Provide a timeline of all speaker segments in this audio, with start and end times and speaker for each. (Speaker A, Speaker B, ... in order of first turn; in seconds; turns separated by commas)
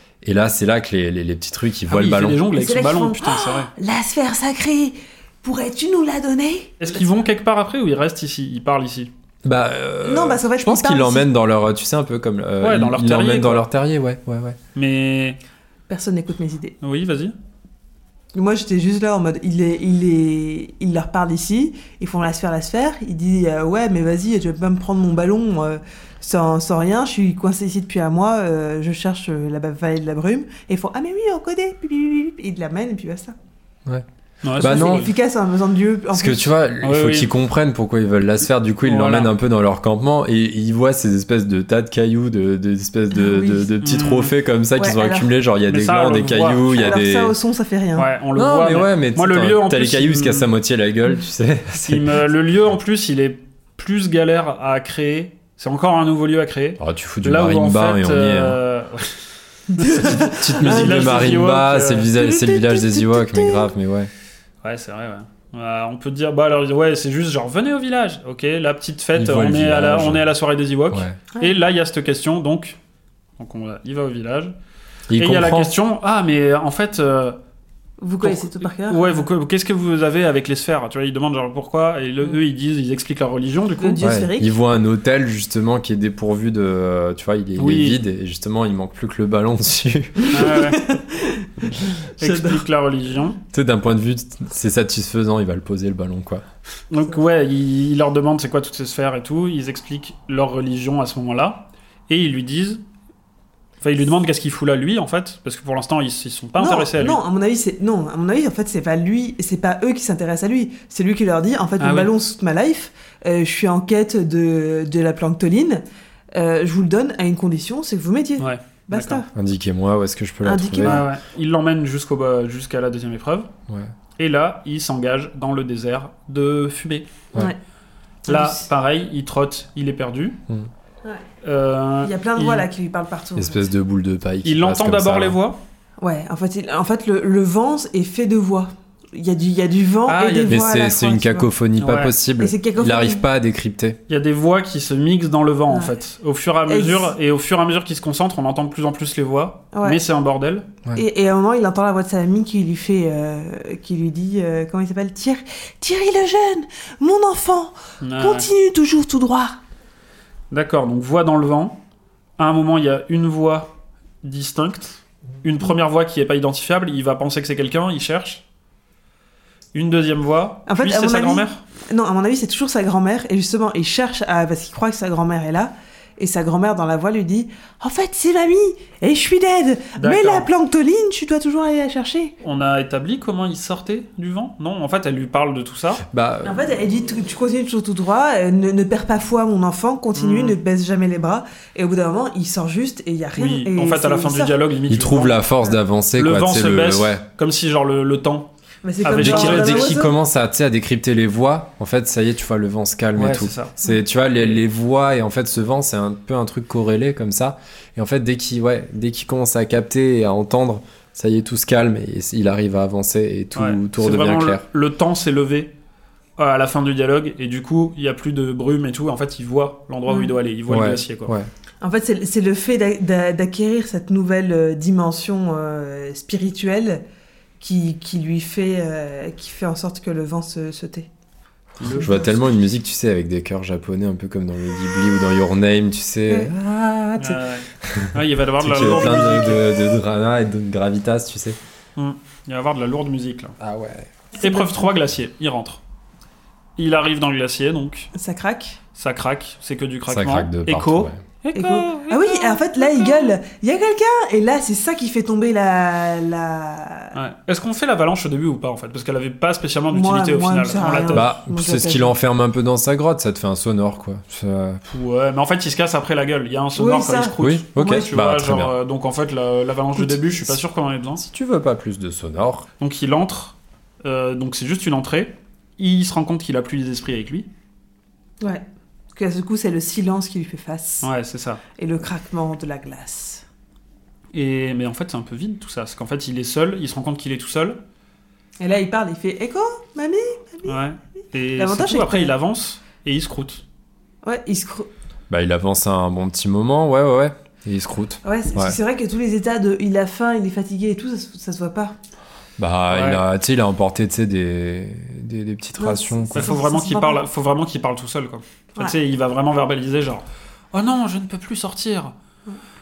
Speaker A: 0.2-2.4, Speaker B: 1.9-3.7, Speaker C: 2.5-7.0, Speaker B: 6.8-9.1, Speaker A: 9.4-14.6, Speaker C: 10.0-11.3, Speaker B: 12.6-13.7, Speaker B: 14.8-15.4, Speaker C: 15.9-16.8, Speaker B: 16.8-17.4, Speaker C: 18.3-33.4, Speaker B: 34.4-35.1, Speaker A: 34.6-35.1, Speaker C: 34.6-36.5, Speaker A: 36.1-47.4, Speaker B: 36.8-37.3, Speaker B: 38.9-39.3, Speaker C: 43.1-43.7, Speaker B: 43.8-44.3, Speaker C: 44.8-45.3, Speaker B: 45.7-46.9, Speaker C: 46.7-48.1, Speaker B: 48.0-50.5, Speaker A: 48.4-52.2, Speaker B: 51.8-62.1, Speaker A: 56.8-58.6, Speaker C: 59.8-61.4, Speaker A: 59.9-64.1, Speaker C: 62.1-63.7, Speaker B: 64.6-72.8, Speaker A: 69.2-70.3, Speaker A: 70.9-71.2, Speaker B: 73.4-74.5, Speaker A: 75.1-75.7, Speaker B: 75.2-77.4, Speaker C: 78.0-79.3, Speaker B: 78.2-84.0, Speaker C: 83.8-84.6, Speaker A: 84.0-90.3, Speaker B: 87.6-88.0, Speaker C: 90.2-92.6, Speaker B: 90.3-90.9, Speaker B: 92.2-93.4, Speaker A: 93.5-96.4, Speaker B: 96.9-102.8, Speaker B: 103.8-107.2, Speaker C: 106.6-119.3, Speaker B: 111.8-112.1, Speaker B: 118.4-119.2, Speaker A: 119.3-121.0, Speaker C: 120.4-121.1, Speaker B: 120.8-123.5, Speaker B: 124.2-127.1, Speaker C: 128.3-128.7, Speaker B: 128.3-130.4, Speaker B: 131.4-132.7, Speaker C: 132.0-133.7, Speaker A: 133.4-135.4, Speaker B: 134.4-135.6, Speaker C: 136.0-141.5, Speaker B: 140.1-140.6, Speaker A: 140.5-144.0, Speaker B: 141.8-142.2, Speaker C: 142.4-143.3, Speaker B: 144.1-150.7, Speaker C: 146.7-147.1, Speaker C: 149.7-150.0, Speaker C: 150.9-159.6, Speaker B: 158.0-158.5, Speaker B: 160.5-161.8, Speaker B: 162.4-168.4, Speaker B: 169.7-171.6, Speaker C: 170.7-182.3, Speaker B: 180.0-180.5, Speaker B: 182.4-186.0, Speaker A: 186.1-186.7, Speaker C: 186.4-194.6, Speaker B: 190.2-190.6, Speaker B: 193.4-195.4, Speaker A: 194.9-197.2, Speaker B: 196.2-198.5, Speaker C: 198.8-200.2, Speaker B: 199.0-200.0, Speaker A: 199.2-214.6, Speaker B: 203.2-203.8, Speaker B: 213.6-215.7, Speaker B: 216.4-221.3, Speaker C: 220.1-220.3, Speaker A: 220.7-221.5, Speaker C: 221.8-227.0, Speaker C: 227.6-231.1, Speaker B: 231.8-232.3, Speaker C: 231.8-232.3, Speaker A: 232.0-241.6, Speaker B: 237.2-239.7, Speaker B: 242.0-243.6, Speaker A: 243.6-244.1, Speaker C: 244.3-244.9, Speaker B: 244.4-245.8, Speaker B: 246.8-248.1, Speaker C: 248.1-248.8, Speaker B: 249.0-253.3, Speaker A: 250.1-251.2, Speaker C: 251.5-257.1, Speaker B: 257.1-261.3, Speaker C: 259.9-262.1, Speaker A: 261.1-264.8, Speaker B: 264.9-271.2, Speaker C: 266.8-268.0, Speaker A: 267.4-268.7, Speaker A: 271.2-272.7, Speaker B: 272.8-277.5, Speaker C: 278.4-281.1, Speaker B: 281.0-281.6, Speaker C: 281.8-283.4, Speaker B: 284.3-287.8, Speaker C: 288.6-290.8, Speaker B: 290.7-293.6, Speaker C: 291.6-292.3, Speaker C: 294.2-294.9, Speaker A: 295.3-298.8, Speaker C: 298.2-301.9, Speaker A: 302.6-306.5, Speaker B: 302.9-303.2, Speaker C: 305.8-307.2, Speaker B: 306.4-312.1